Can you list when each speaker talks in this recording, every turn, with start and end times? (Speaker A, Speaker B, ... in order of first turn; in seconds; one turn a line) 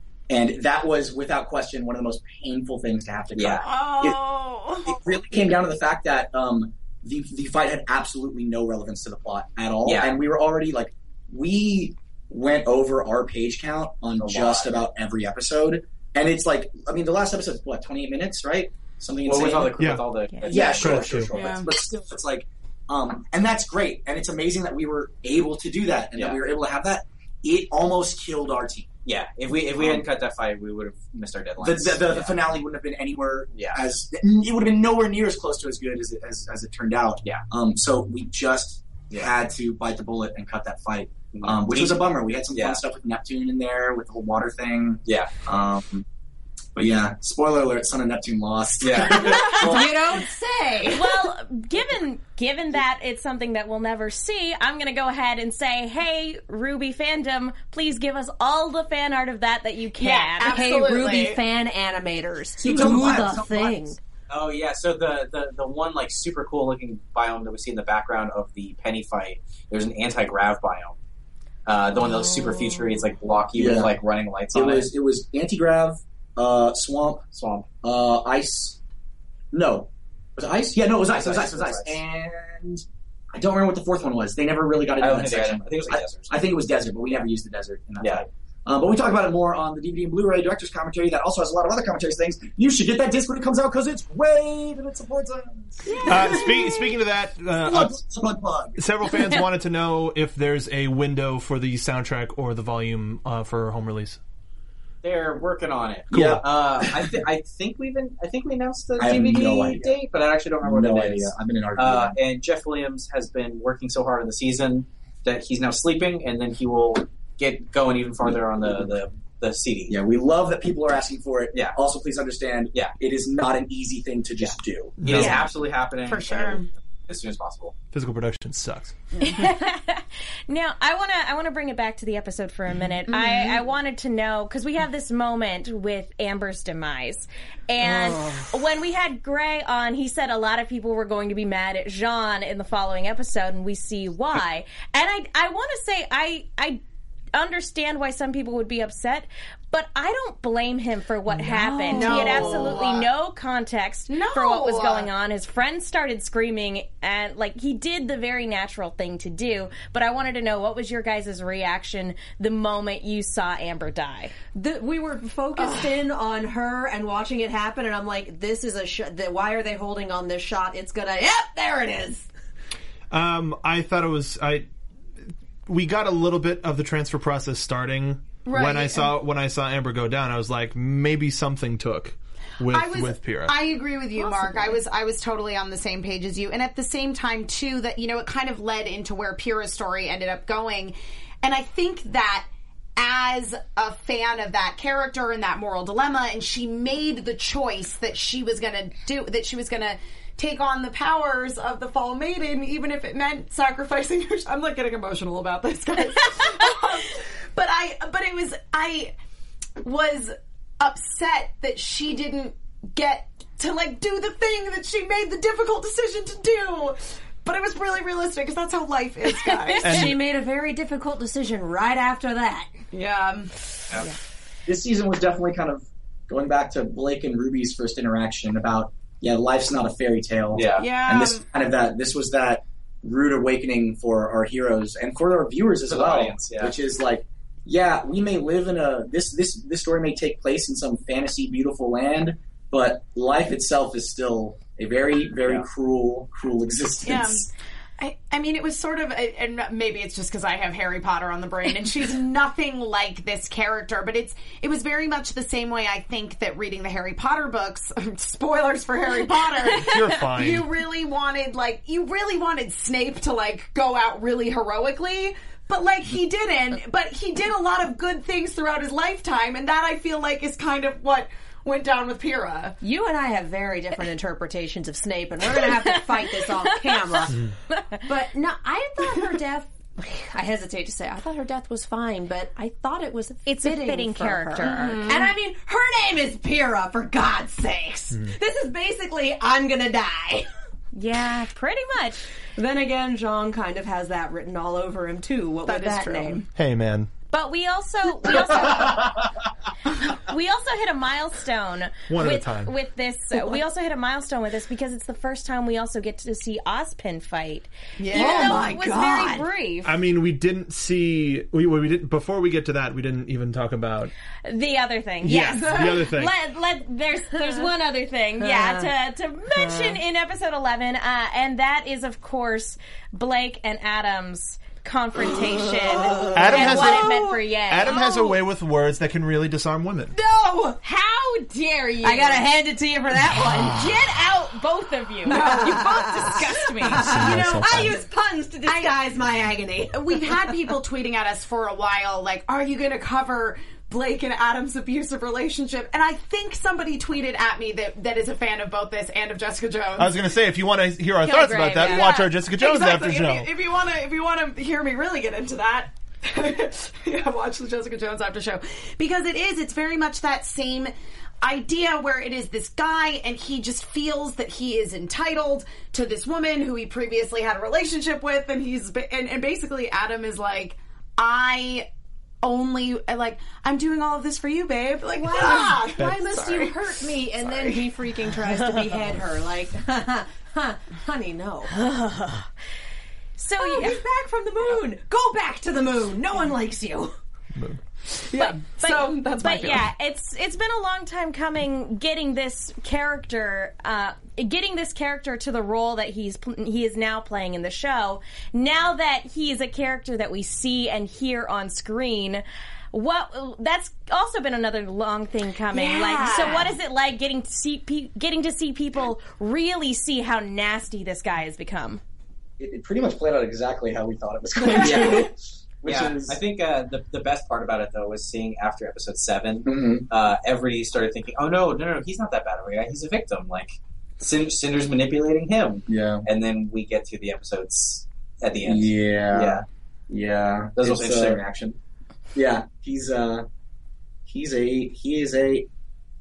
Speaker A: 0.3-4.2
Speaker B: 3.4-3.6
Speaker C: 3.6-4.9
Speaker A: 4.9-19.8
Speaker B: 9.8-10.2
Speaker B: 14.2-14.7
Speaker B: 19.3-21.1
Speaker D: 19.8-20.1
Speaker A: 20.4-28.9
Speaker C: 20.5-20.8
Speaker D: 20.6-21.3
Speaker C: 21.3-21.7
Speaker B: 26.1-26.4
Speaker B: 29.1-32.5
Speaker A: 29.8-30.1
Speaker A: 31.6-46.1
Speaker B: 33.5-33.8
Speaker B: 41.3-42.8
Speaker B: 45.0-45.3
Speaker A: 46.8-50.0
Speaker B: 48.8-49.9
Speaker E: 49.5-51.3
Speaker F: 50.9-60.6
Speaker C: 60.0-61.4
Speaker E: 60.4-64.0
Speaker A: 62.6-63.8
Speaker B: 62.8-63.3
Speaker B: 64.3-71.0
Speaker B: 71.7-74.9
Speaker A: 73.6-73.9
Speaker A: 74.5-77.2
Speaker B: 77.3-77.7
Speaker A: 77.8-78.8
Speaker A: 79.5-96.1
Speaker B: 81.1-82.0
Speaker B: 85.0-86.3
Speaker D: 96.0-98.0
Speaker A: 97.5-98.8
Speaker D: 98.8-104.2
Speaker B: 105.0-120.0
Speaker D: 106.1-106.4
Speaker A: 106.1-106.4
Speaker A: 109.0-109.9
Speaker A: 110.6-112.2
Speaker A: 119.9-125.3
Speaker B: 124.4-127.8
Speaker D: 125.0-125.4
Speaker C: 126.0-126.7
Speaker D: 127.9-129.0
Speaker F: 129.2-146.8
Speaker C: 133.1-133.6
Speaker E: 137.8-138.5
Speaker F: 147.3-164.3
Speaker E: 151.5-152.8
Speaker C: 151.6-153.1
Speaker C: 154.1-155.1
Speaker E: 164.5-172.3
Speaker D: 173.1-174.7
Speaker D: 175.7-183.6
Speaker C: 178.4-179.1
Speaker C: 182.7-209.1
Speaker E: 184.2-184.8
Speaker C: 209.8-220.1
Speaker D: 219.8-220.2
Speaker E: 219.8-222.7
Speaker C: 222.9-223.5
Speaker A: 224.7-247.5
Speaker B: 230.5-230.9
Speaker C: 230.8-231.4
Speaker B: 235.9-236.8
Speaker C: 247.0-247.4
Speaker C: 248.0-272.8
Speaker D: 259.7-260.7
Speaker E: 272.8-277.4
Speaker F: 275.9-277.8
Speaker E: 278.0-290.5
Speaker F: 283.5-285.1
Speaker C: 284.6-285.3
Speaker F: 290.9-292.2
Speaker E: 292.6-296.4
Speaker C: 295.6-296.5
Speaker D: 296.6-297.1
Speaker F: 297.3-299.1
Speaker F: 300.3-309.9
Speaker D: 302.1-302.7
Speaker C: 308.0-308.8
Speaker E: 308.1-309.5
Speaker D: 309.8-314.1
Speaker F: 314.5-328.4
Speaker D: 315.2-316.3
Speaker C: 315.4-316.0
Speaker E: 318.4-318.9
Speaker E: 319.5-320.0
Speaker E: 325.9-327.4
Speaker D: 326.3-330.1
Speaker E: 330.1-330.8
Speaker F: 330.8-332.5
Speaker E: 332.0-333.9
Speaker F: 333.6-337.2
Speaker C: 335.3-336.4
Speaker E: 335.3-340.7
Speaker D: 337.0-338.0
Speaker C: 337.1-337.9
Speaker C: 338.6-338.9
Speaker C: 339.9-350.3
Speaker D: 350.0-353.5
Speaker F: 351.2-352.2
Speaker C: 351.7-371.9
Speaker C: 372.4-376.9
Speaker E: 375.1-381.7
Speaker C: 377.4-377.8
Speaker F: 381.7-382.5
Speaker F: 383.4-384.0
Speaker E: 383.6-387.1
Speaker C: 388.3-389.9
Speaker F: 388.4-412.0
Speaker E: 405.7-406.7
Speaker C: 405.9-406.7
Speaker A: 412.6-416.4
Speaker B: 414.8-415.3
Speaker B: 415.9-429.6
Speaker A: 419.6-420.1
Speaker A: 425.9-426.2
Speaker A: 428.6-431.4
Speaker B: 430.8-431.8
Speaker A: 432.4-433.5
Speaker A: 434.3-435.7